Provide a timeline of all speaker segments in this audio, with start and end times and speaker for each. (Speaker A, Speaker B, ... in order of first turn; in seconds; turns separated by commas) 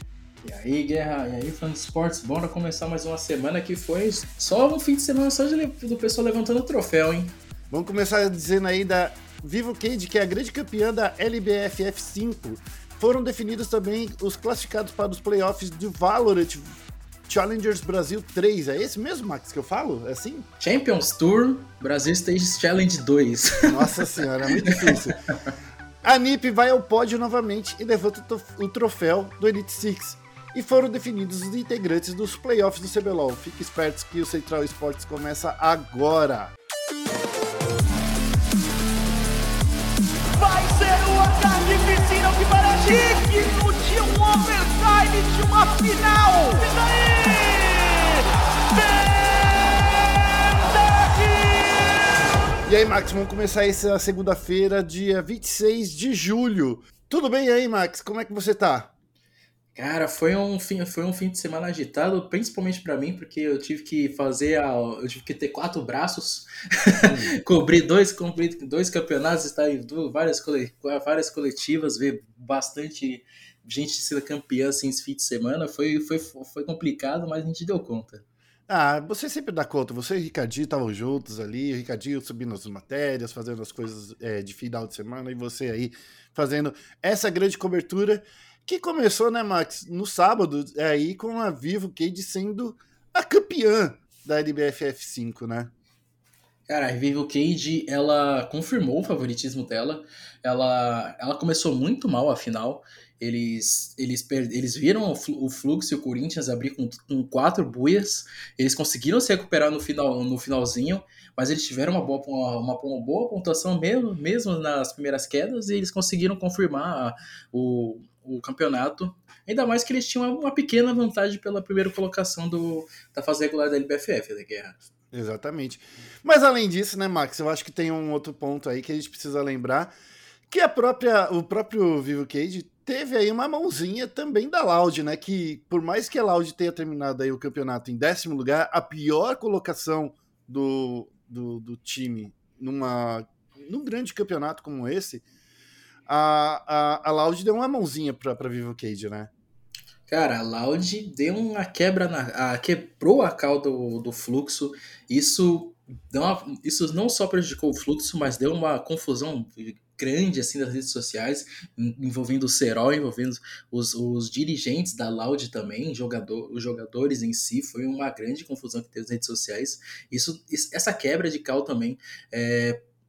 Speaker A: 0.4-7.3, Speaker B: 7.7-16.8, Speaker B: 17.3-20.5, Speaker A: 20.6-24.1, Speaker B: 23.6-25.2, Speaker A: 24.6-24.9, Speaker B: 26.0-36.5, Speaker C: 40.4-48.2, Speaker C: 48.7-49.3, Speaker C: 50.6-51.9, Speaker B: 52.6-58.9, Speaker A: 59.7-78.2, Speaker B: 67.0-67.3, Speaker B: 78.7-95.7, Speaker A: 96.7-124.8, Speaker B: 125.1-129.9, Speaker B: 130.5-145.2, Speaker B: 146.1-149.3, Speaker A: 150.1-172.8